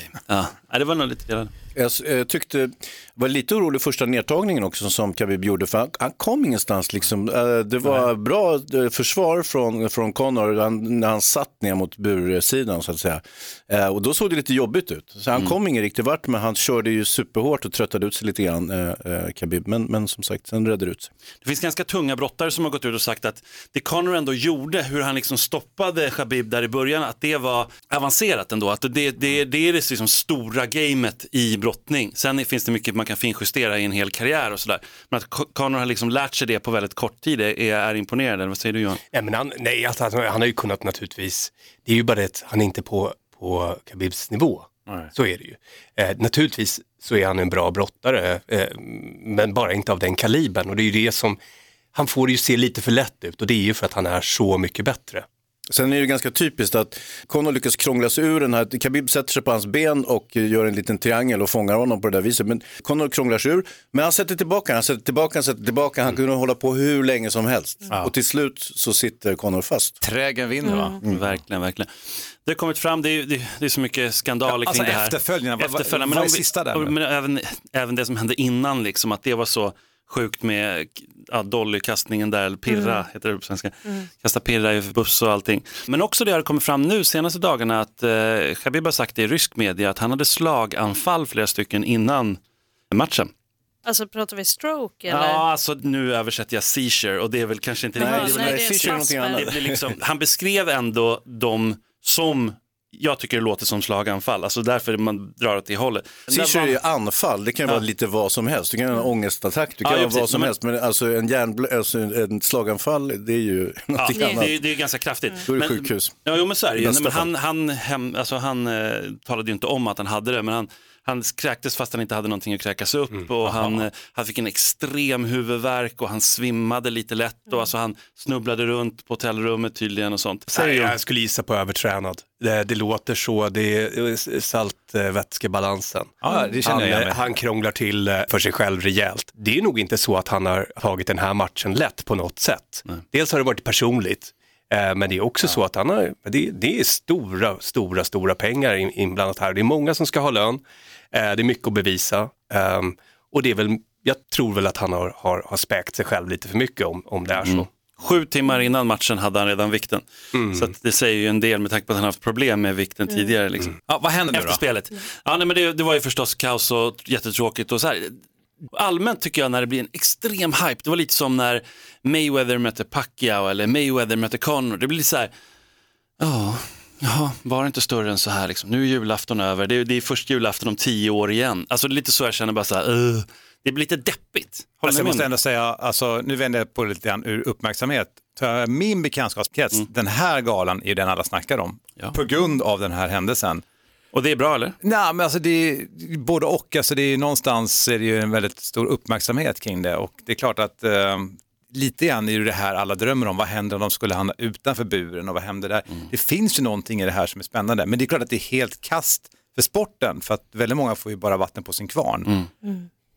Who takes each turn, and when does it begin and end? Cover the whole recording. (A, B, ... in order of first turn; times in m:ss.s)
0:00.1-0:01.5 A
0:01.7-0:21.1 B
0:21.4-0:39.0 A
0:39.1-0:51.4 C
0:51.9-0:55.2 C
0:55.7-1:10.0 B
1:10.0-1:11.0 D
1:10.6-1:11.0 E
1:11.1-1:32.4 A
1:14.4-1:16.9 D
1:22.7-1:23.0 E
1:32.9-1:33.3 A
1:33.8-1:35.4 E
1:35.1-1:46.8 A
1:38.0-1:39.9 B
1:38.0-1:39.4 E
1:46.3-1:54.7 B
1:49.8-1:50.5 A
1:54.0-2:11.0 A
1:54.1-1:54.4 E
1:55.5-1:57.3 B
2:03.1-2:03.8 C
2:10.5-2:37.7 C
2:16.2-2:17.3 D
2:16.2-2:16.5 E
2:37.4-2:43.8 A
2:40.3-2:40.7 C
2:43.8-2:44.6 D
2:44.3-2:48.2 A
2:48.7-2:55.3 A
2:56.2-3:05.3 A
3:04.8-3:13.6 D
3:14.1-3:14.7 A
3:14.8-3:32.3 D